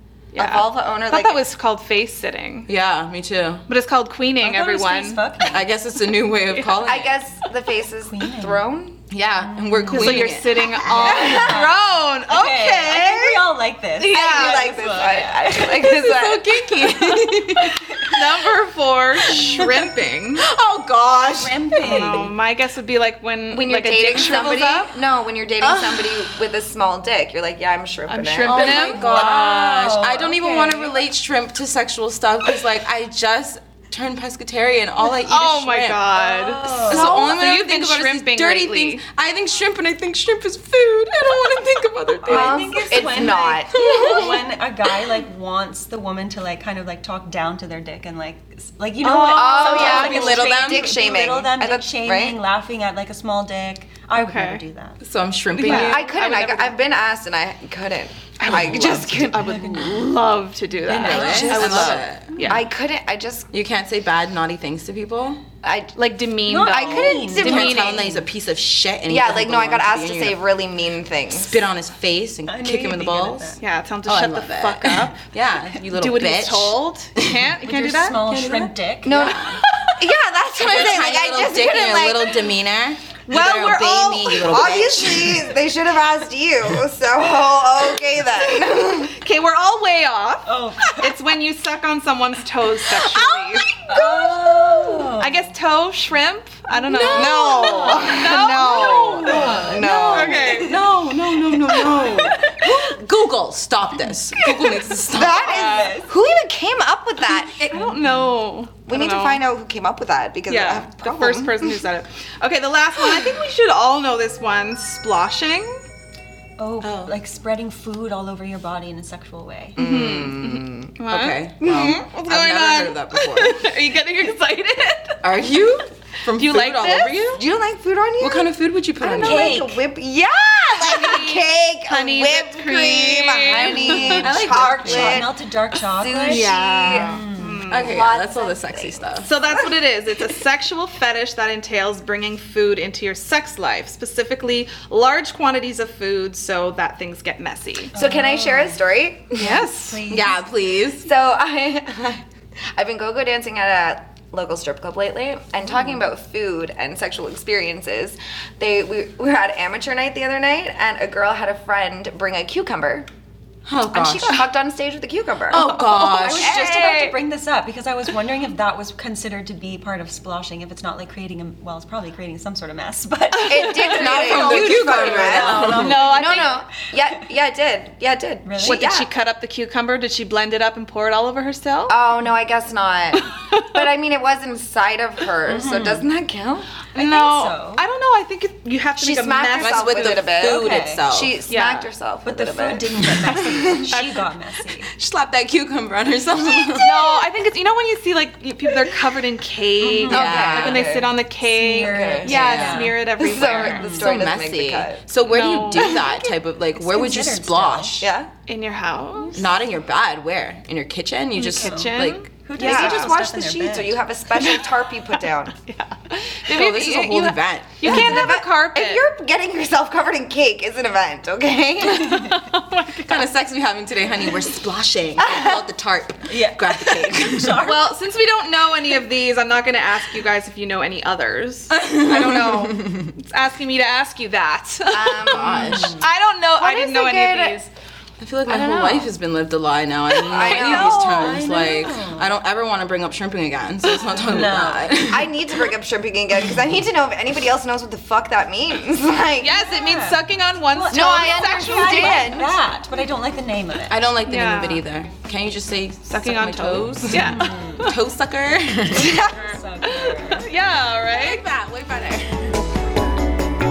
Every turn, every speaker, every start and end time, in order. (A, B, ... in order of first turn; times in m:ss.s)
0:00.3-0:02.7 A
0:00.4-0:01.4 B
0:02.7-0:03.6 C
0:03.7-0:05.2 A
0:04.4-0:05.7 D
0:05.5-0:07.2 C
0:06.5-0:06.8 A
0:06.8-0:09.0 B
0:08.0-0:08.7 D
0:09.1-0:11.3 C
0:09.4-0:16.0 D
0:09.9-0:13.4 A
0:11.1-0:11.6 B
0:14.0-0:14.8 A
0:14.1-0:16.5 B
0:16.0-0:18.2 C
0:18.1-0:20.4 A
0:20.4-0:22.2 C
0:21.3-0:22.3 D
0:21.8-0:24.9 A
0:23.5-0:28.7 B
0:25.6-0:26.2 C
0:28.1-0:29.5 A
0:28.4-0:36.1 C
0:28.6-0:30.9 D
0:35.0-0:39.0 A
0:36.2-0:37.3 D
0:36.8-0:44.5 C
0:42.2-0:55.0 D
0:42.3-0:43.7 B
0:49.2-0:50.9 C
0:49.2-0:52.4 B
0:54.2-0:54.6 A
0:55.0-0:56.0 C
0:55.6-0:56.8 A
0:55.6-0:59.6 B
0:55.7-0:55.9 D
0:58.4-1:02.7 A
0:58.5-1:00.0 D
1:00.8-1:02.5 D
1:00.9-1:02.6 C
1:01.3-1:01.7 B
1:02.5-1:03.5 B
1:03.5-1:05.4 C
1:05.6-1:08.1 B
1:05.9-1:08.0 A
1:06.5-1:08.1 D
1:07.3-1:10.4 C
1:09.1-1:11.6 B
1:11.3-1:17.4 C
1:12.5-1:13.6 D
1:13.6-1:15.2 A
1:15.9-1:18.4 A
1:17.6-1:19.6 D
1:18.4-1:19.6 C
1:19.0-1:22.5 B
1:20.6-1:25.5 C
1:23.3-1:24.4 A
1:24.3-1:29.1 B
1:29.2-1:30.4 A
1:30.4-1:31.0 D
1:31.0-1:33.7 A
1:33.1-1:33.6 C
1:33.9-1:35.4 D
1:33.9-1:34.6 B
1:35.2-1:40.7 A
1:36.8-1:38.2 C
1:37.1-1:40.7 B
1:37.1-1:38.2 D
1:38.8-1:40.4 D
1:40.2-1:45.5 C
1:45.1-1:48.0 B
1:45.2-1:46.1 D
1:45.4-1:46.0 A
1:47.7-1:49.4 A
1:48.8-1:51.8 B
1:50.5-1:55.8 A
1:56.6-1:59.8 D
1:56.8-1:57.2 C
1:59.8-2:00.9 B
1:59.8-2:05.2 A
2:01.1-2:03.6 C
2:01.6-2:02.0 B
2:05.2-2:07.4 C
2:06.3-2:07.4 A
2:07.4-2:15.3 B
2:08.2-2:09.6 C
2:09.2-2:09.8 D
2:09.2-2:09.5 A
2:10.8-2:14.3 A
2:13.5-2:17.6 D
2:13.7-2:15.3 C
2:16.0-2:20.3 B
2:16.3-2:17.2 C
2:17.2-2:17.9 A
2:17.7-2:19.3 C
2:19.2-2:27.9 A
2:27.9-2:28.8 D
2:27.9-2:29.6 B
2:29.3-2:30.0 A
2:29.4-2:30.4 D
2:30.1-2:31.1 C
2:31.0-2:32.2 B
2:32.7-2:43.1 B
2:43.6-2:44.4 C
2:43.9-2:47.1 B
2:45.5-2:46.6 C
2:45.7-2:47.1 A
2:46.0-2:57.2 D
2:53.4-2:59.1 B
2:53.9-2:56.0 C
2:55.7-2:56.5 A
2:58.4-2:58.8 D
2:58.6-3:02.0 A
3:01.9-3:06.8 B
3:03.1-3:03.8 A
3:05.5-3:06.1 D
3:06.9-3:10.3 A
3:06.9-3:07.8 D
3:09.0-3:13.9 B
3:09.6-3:11.4 C
3:10.3-3:11.1 D
3:11.5-3:11.9 A
3:12.2-3:14.9 D
3:13.3-3:14.3 A
3:14.9-3:17.1 C
3:16.8-3:23.8 A
3:19.8-3:20.9 C
3:20.1-3:21.2 B
3:20.1-3:20.5 D
3:21.4-3:24.2 D
3:21.7-3:22.6 B
3:22.2-3:22.9 C
3:23.2-3:25.0 B
3:23.6-3:28.1 C
3:25.2-3:26.0 A
3:25.8-3:26.1 D
3:26.7-3:27.9 D
3:28.0-3:28.3 B
3:28.5-3:29.4 A
3:29.3-3:33.0 C
3:31.4-3:33.0 A
3:31.5-3:34.0 D
3:32.6-3:35.6 B
3:35.7-3:39.0 A
3:36.5-3:38.1 C
3:37.8-3:42.2 B
3:41.8-3:43.3 A
3:43.0-3:47.7 C
3:45.2-3:45.6 B
3:46.3-3:47.9 D
3:47.6-3:57.7 A
3:51.7-3:52.9 C
3:54.9-3:55.8 B
3:55.2-3:56.0 C
3:55.6-3:56.0 D
3:56.5-3:57.6 B
3:58.2-4:05.4 C
3:58.5-3:59.1 B
4:00.2-4:01.1 B
4:00.4-4:02.3 D
4:04.2-4:05.1 D
4:05.1-4:09.5 B
4:09.4-4:12.2 A
4:09.6-4:14.0 D
4:10.9-4:12.6 B
4:13.9-4:19.2 C
4:14.2-4:14.8 A
4:16.0-4:17.9 A
4:17.1-4:17.8 D
4:18.9-4:20.4 D
4:19.1-4:19.5 B
4:20.0-4:21.4 A
4:21.1-4:22.5 C